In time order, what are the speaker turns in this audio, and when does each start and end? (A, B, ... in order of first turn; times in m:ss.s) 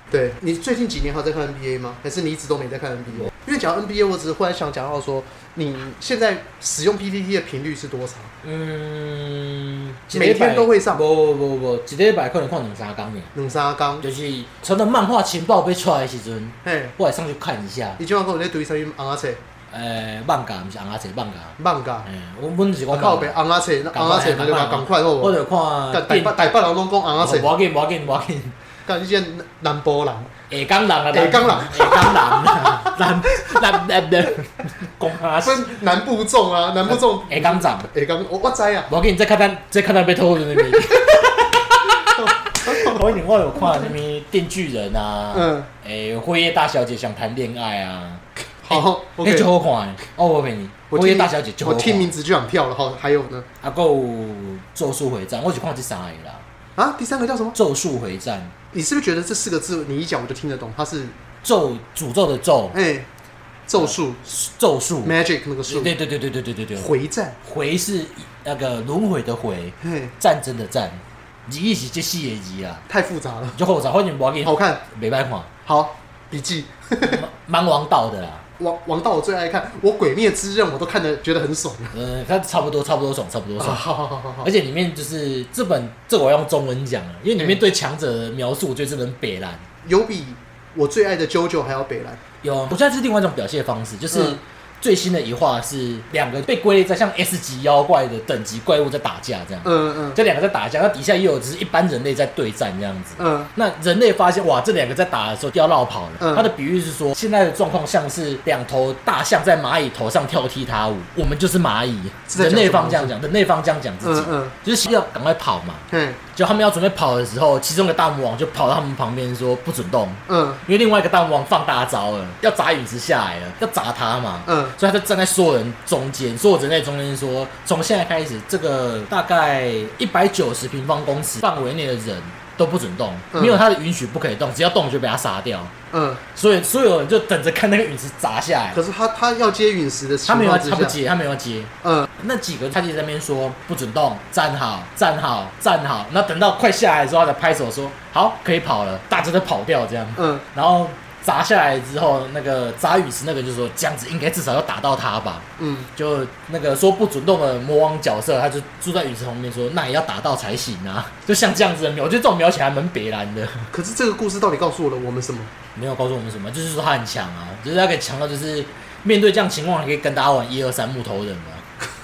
0:00.1-0:08.3 A
0:08.4-0:13.3 B
0:10.1-0:11.0 A
0:13.3-0:14.1 A
0:14.0-0:18.0 B
0:16.6-0:16.9 A
0:18.0-0:19.4 A
0:19.7-0:23.4 B
0:21.6-0:22.1 A
0:22.9-0:25.4 A
0:23.9-0:26.5 B
0:25.9-0:27.5 A
0:27.2-0:28.6 B
0:28.9-0:30.3 A
0:30.5-0:35.7 B
0:31.1-0:33.0 A
0:35.4-0:38.9 A
0:36.8-0:37.9 B
0:38.9-0:52.1 B
0:42.1-0:43.0 A
0:45.3-0:45.7 A
0:48.6-0:49.5 A
0:50.9-0:53.5 A
0:53.6-0:56.4 B
0:56.8-0:57.6 A
0:57.6-0:58.5 B
0:58.7-1:01.2 A
1:01.4-1:02.8 B
1:02.7-1:03.1 A
1:03.7-1:04.2 A
1:03.8-1:05.2 B
1:05.0-1:05.9 A
1:05.7-1:06.9 B
1:06.8-1:07.4 A
1:07.4-1:12.8 B
1:09.8-1:10.1 A
1:12.9-1:13.6 A
1:13.6-1:15.5 B
1:14.4-1:14.8 A
1:15.7-1:17.2 A
1:17.0-1:18.4 B
1:18.6-1:22.0 A
1:21.9-1:23.8 B
1:23.6-1:24.5 A
1:24.4-1:29.6 B
1:29.8-1:32.2 A
1:32.4-2:15.7 B
1:34.1-1:34.4 A
1:39.6-1:40.2 A
1:43.2-1:43.5 A
1:46.2-1:46.5 A
1:52.3-1:53.1 A
1:54.0-1:54.6 A
1:55.9-1:56.2 A
2:00.3-2:00.6 A
2:04.5-2:04.8 A
2:13.3-2:13.6 A
2:15.9-2:16.2 A
2:16.3-2:18.8 B
2:18.7-2:21.0 A
2:20.3-2:43.7 B
2:21.8-2:22.1 A
2:30.2-2:30.4 A
2:35.6-2:35.9 A
2:43.7-2:45.5 A
2:45.8-2:51.7 B